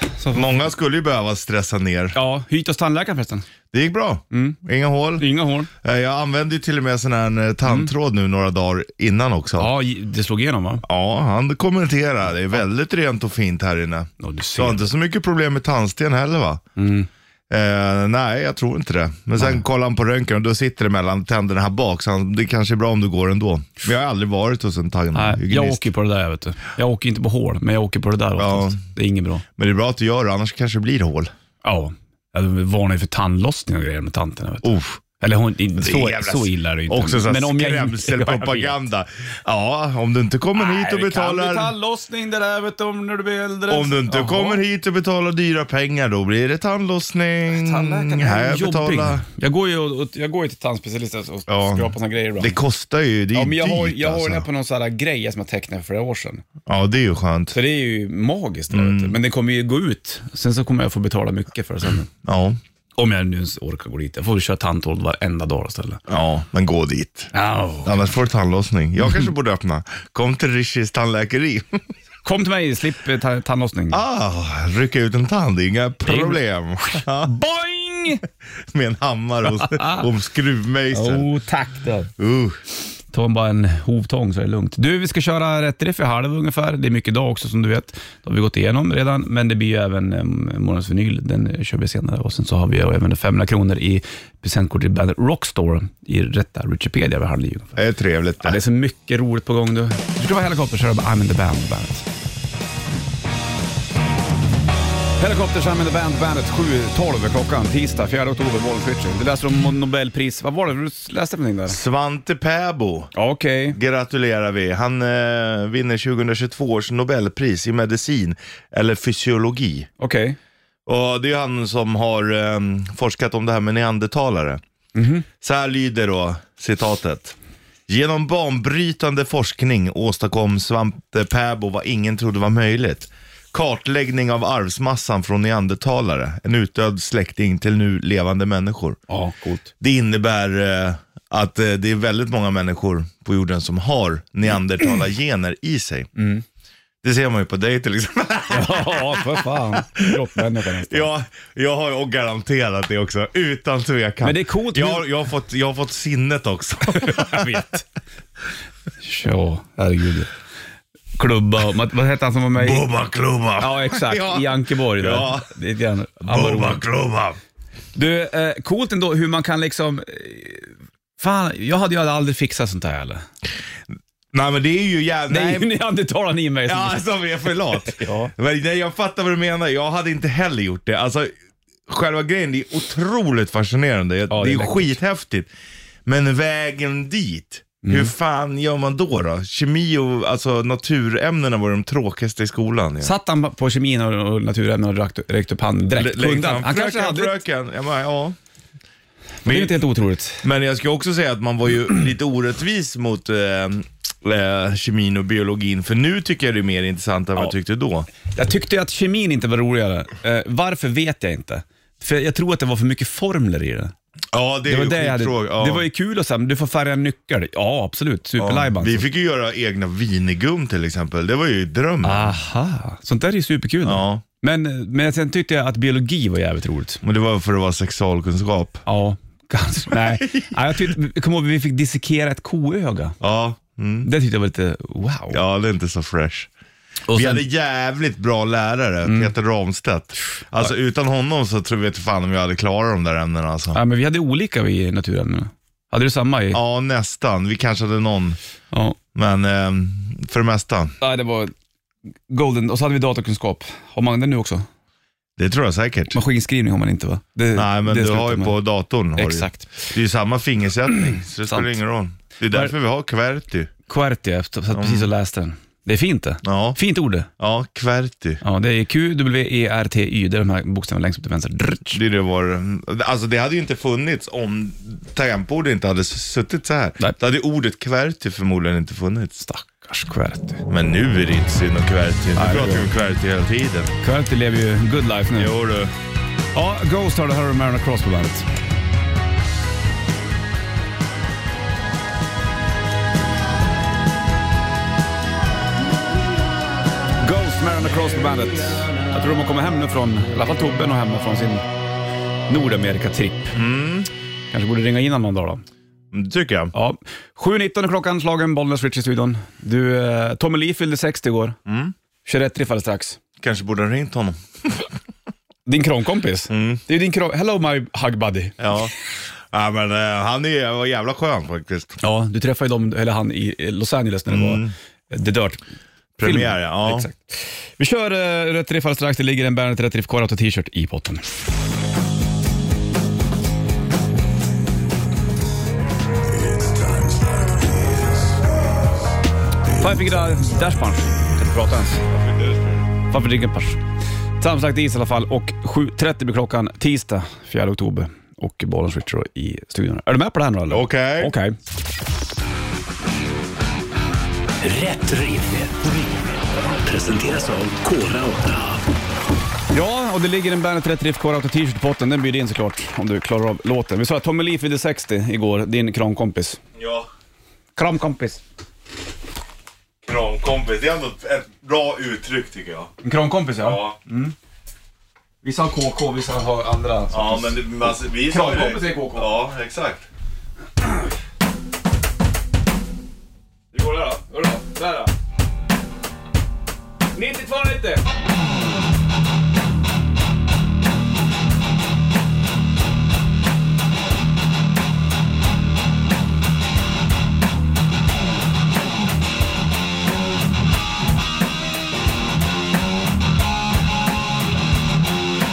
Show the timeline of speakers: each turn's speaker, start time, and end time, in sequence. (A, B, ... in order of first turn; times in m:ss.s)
0:00.1-0:00.5 A
0:00.3-0:02.2 B
0:02.1-0:03.5 A
0:03.7-0:05.3 B
0:04.3-0:04.6 A
0:05.2-0:05.7 A
0:05.8-0:09.7 B
0:07.7-0:07.9 A
0:09.6-0:10.8 A
0:10.8-0:16.6 B
0:14.2-0:14.9 A
0:16.8-0:17.1 A
0:17.5-0:25.9 B
0:25.1-0:29.4 A
0:28.4-0:28.8 B
0:29.6-0:31.3 B
0:31.6-0:38.8 A
0:34.6-0:35.0 B
0:35.8-0:41.7 B
0:40.6-0:44.6 A
0:43.7-0:49.2 B
0:47.5-0:52.6 A
0:51.5-0:54.5 B
0:53.3-0:56.4 A
0:56.7-0:57.6 B
0:57.5-1:02.1 A
0:58.7-0:59.2 B
1:02.2-1:02.6 B
1:03.0-1:06.0 A
1:06.1-1:07.3 B
1:07.3-1:08.1 A
1:07.8-1:11.8 B
1:12.2-1:14.0 A
1:13.9-1:17.4 B
1:16.1-1:18.2 A
1:18.7-1:21.3 B
1:19.5-1:20.1 A
1:20.9-1:22.1 A
1:22.2-1:22.6 B
1:23.1-1:37.8 A
1:37.8-1:38.6 B
1:38.4-1:42.0 A
1:45.2-1:51.8 A
1:51.7-1:53.1 B
1:53.2-1:53.8 A
1:53.7-1:59.9 B
2:00.0-2:00.4 A
2:00.9-2:04.6 B
2:05.0-2:05.3 A
2:05.4-2:07.4 B
2:07.9-2:19.0 B
2:19.1-2:19.7 A
2:19.8-2:26.1 B
2:26.2-2:26.4 A
2:27.0-2:30.2 B
2:28.5-2:31.1 A
2:30.9-2:37.6 B
2:34.2-2:35.1 A
2:36.9-2:37.8 A
2:39.0-2:40.3 A
2:41.2-2:42.9 A
2:42.6-2:45.5 B
2:43.6-2:46.8 A
2:46.2-2:47.4 B
2:48.0-2:53.2 A
2:54.3-2:55.7 B
2:55.3-2:58.3 A
2:56.7-3:01.3 B
3:01.9-3:05.5 B
3:04.3-3:05.0 A
3:06.1-3:13.1 B
3:07.8-3:08.1 A
3:13.0-3:17.4 A
3:15.9-3:18.4 B
3:19.4-3:19.8 B
3:19.4-3:20.4 A
3:20.4-3:28.1 B
3:28.3-3:33.9 A
3:34.3-3:35.9 B
3:34.7-3:39.1 A
3:38.4-3:42.3 B
3:42.0-3:47.0 A
3:43.8-3:44.2 B
3:47.0-3:48.8 B
3:48.9-3:53.2 A
3:49.9-3:50.6 B
3:53.2-3:54.1 B
3:54.0-3:55.4 A
3:55.3-3:56.5 B
3:57.1-3:57.4 A
3:57.1-4:03.8 B
3:59.0-3:59.3 A
4:03.7-4:06.6 A
4:06.5-4:08.4 B
4:08.7-4:09.0 A
4:09.2-4:11.0 B
4:11.0-4:11.5 A
4:12.3-4:14.7 A
4:15.4-4:16.2 B
4:16.1-4:18.6 A
4:17.5-4:23.7 B
4:19.2-4:19.9 A
4:21.5-4:21.8 A
4:23.9-4:27.3 A
4:24.7-4:25.1 B
4:26.4-4:26.8 B
4:27.4-4:28.4 B
4:28.4-4:32.0 A
4:31.9-4:39.5 B
4:39.4-4:40.6 A
4:40.7-4:43.9 B
4:42.4-4:42.9 A
4:44.0-4:45.5 A
4:45.4-4:45.9 B
4:46.5-4:48.4 A
4:57.2-5:01.6 A
5:02.5-5:03.5 A
5:03.5-5:04.1 B
5:04.5-5:05.6 A
5:06.1-5:06.7 B
5:06.7-5:11.6 A
5:11.7-5:11.9 B
5:12.3-5:13.2 A
5:13.4-5:14.9 B
5:15.7-5:18.6 A
5:16.5-5:16.8 B
5:18.6-5:18.9 B
5:19.5-5:22.0 B
5:22.0-5:25.6 A
5:24.3-5:24.7 B
5:26.2-5:27.1 B
5:26.2-5:31.2 A
5:39.7-5:42.0 A
5:42.1-5:42.9 B
5:43.1-5:43.8 A
5:44.4-5:51.6 A
5:50.7-5:51.3 B
5:54.6-5:58.8 C
5:59.7-6:06.6 A
6:06.8-6:07.1 B
6:07.8-6:08.4 A
6:10.0-6:12.9 B
6:13.0-6:14.4 A
6:13.6-6:14.0 B
6:15.4-6:19.4 A
6:17.1-6:20.1 B
6:23.7-6:25.1 A
6:27.1-6:28.0 A